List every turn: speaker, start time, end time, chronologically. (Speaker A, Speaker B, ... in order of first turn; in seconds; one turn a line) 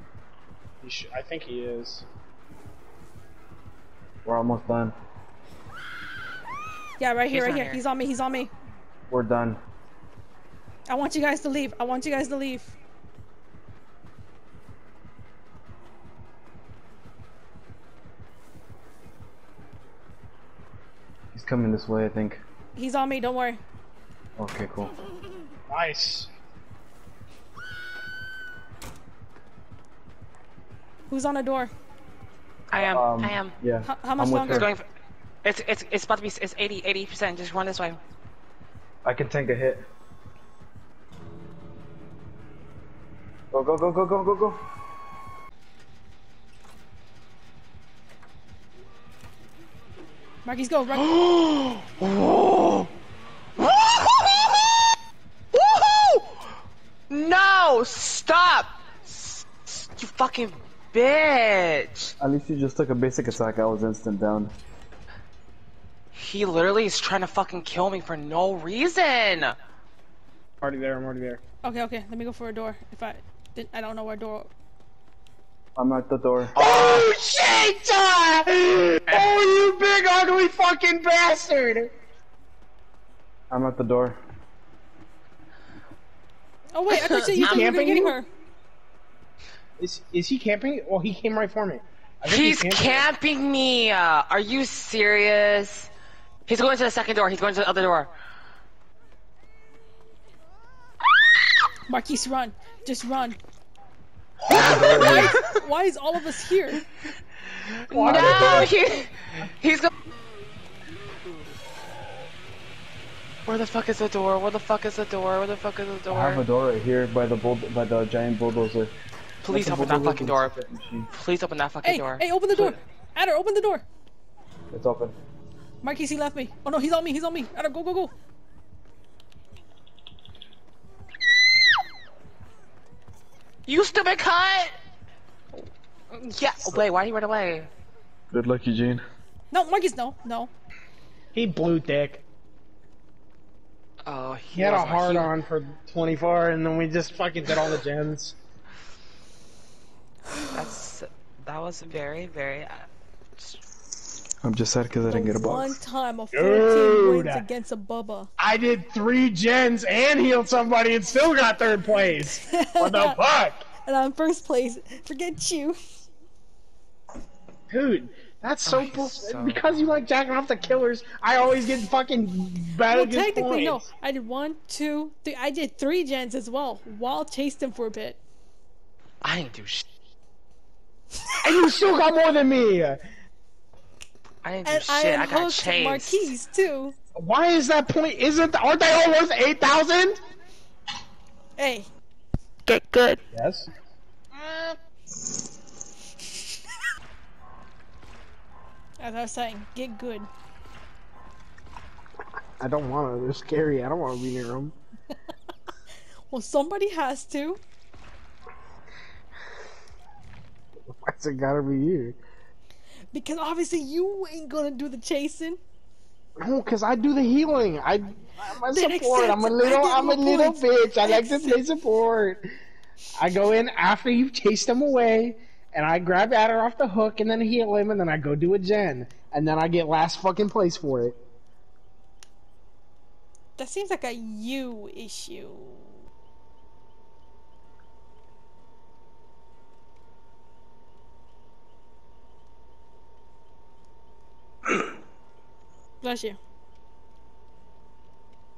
Speaker A: 0.8-2.1
Speaker B: 4.2-4.9
Speaker C: 7.0-8.5
Speaker D: 7.3-7.8
Speaker B: 9.1-9.6
Speaker C: 10.9-12.7
Speaker B: 21.3-22.4
Speaker C: 22.8-23.6
Speaker B: 24.4-24.9
Speaker A: 25.7-26.3
Speaker C: 31.1-31.7
Speaker D: 32.7-33.5
Speaker B: 32.7-34.7
Speaker C: 33.9-34.6
Speaker D: 34.4-34.9
Speaker D: 35.4-38.0
Speaker B: 39.0-39.9
Speaker B: 43.5-44.6
Speaker C: 50.5-51.1
Speaker D: 50.9-52.9
Speaker D: 53.6-54.9
Speaker D: 55.5-56.5
Speaker D: 57.1-62.1
Speaker B: 62.2-64.5
Speaker D: 66.1-69.6
Speaker A: 70.6-71.4
Speaker C: 71.6-74.5
Speaker B: 75.8-77.0
Speaker A: 76.6-81.9
Speaker B: 83.5-84.2
Speaker C: 86.7-88.3
Speaker D: 86.9-87.6
Speaker A: 87.4-88.2
Speaker A: 89.8-93.1
Speaker D: 92.3-95.9
Speaker D: 96.5-98.1
Speaker C: 101.9-103.4
Speaker B: 104.5-105.4
Speaker D: 104.5-105.6
Speaker C: 104.5-106.8
Speaker A: 104.7-104.9
Speaker A: 107.9-108.8
Speaker D: 107.9-109.9
Speaker B: 108.0-108.7
Speaker D: 113.5-116.5
Speaker B: 116.1-118.9
Speaker D: 119.4-120.5
Speaker B: 119.5-121.1
Speaker D: 121.1-122.8
Speaker C: 121.8-123.8
Speaker B: 124.7-125.2
Speaker C: 125.8-128.1
Speaker D: 133.7-134.8
Speaker D: 136.1-137.7
Speaker B: 138.3-139.0
Speaker C: 139.5-140.5
Speaker A: 141.3-142.2
Speaker D: 144.1-145.3
Speaker A: 144.5-148.4
Speaker D: 150.5-152.9
Speaker B: 154.4-155.8
Speaker C: 155.1-158.3
Speaker A: 156.3-157.4
Speaker A: 158.4-163.6
Speaker C: 162.3-163.2
Speaker C: 163.9-165.8
Speaker A: 167.7-173.9
Speaker D: 168.7-169.6
Speaker C: 172.9-178.2
Speaker D: 179.2-179.8
Speaker A: 181.4-183.0
Speaker D: 184.4-186.3
Speaker C: 184.7-187.0
Speaker A: 187.2-190.2
Speaker C: 191.6-191.9
Speaker D: 192.7-193.2
Speaker A: 193.3-193.7
Speaker D: 194.4-194.8
Speaker C: 199.0-200.3
Speaker A: 202.6-204.7
Speaker C: 206.3-207.6
Speaker A: 210.9-212.2
Speaker C: 213.1-215.6
Speaker A: 216.4-222.5
Speaker C: 218.7-221.6
Speaker A: 223.2-231.2
Speaker C: 233.6-236.0
Speaker C: 246.0-246.4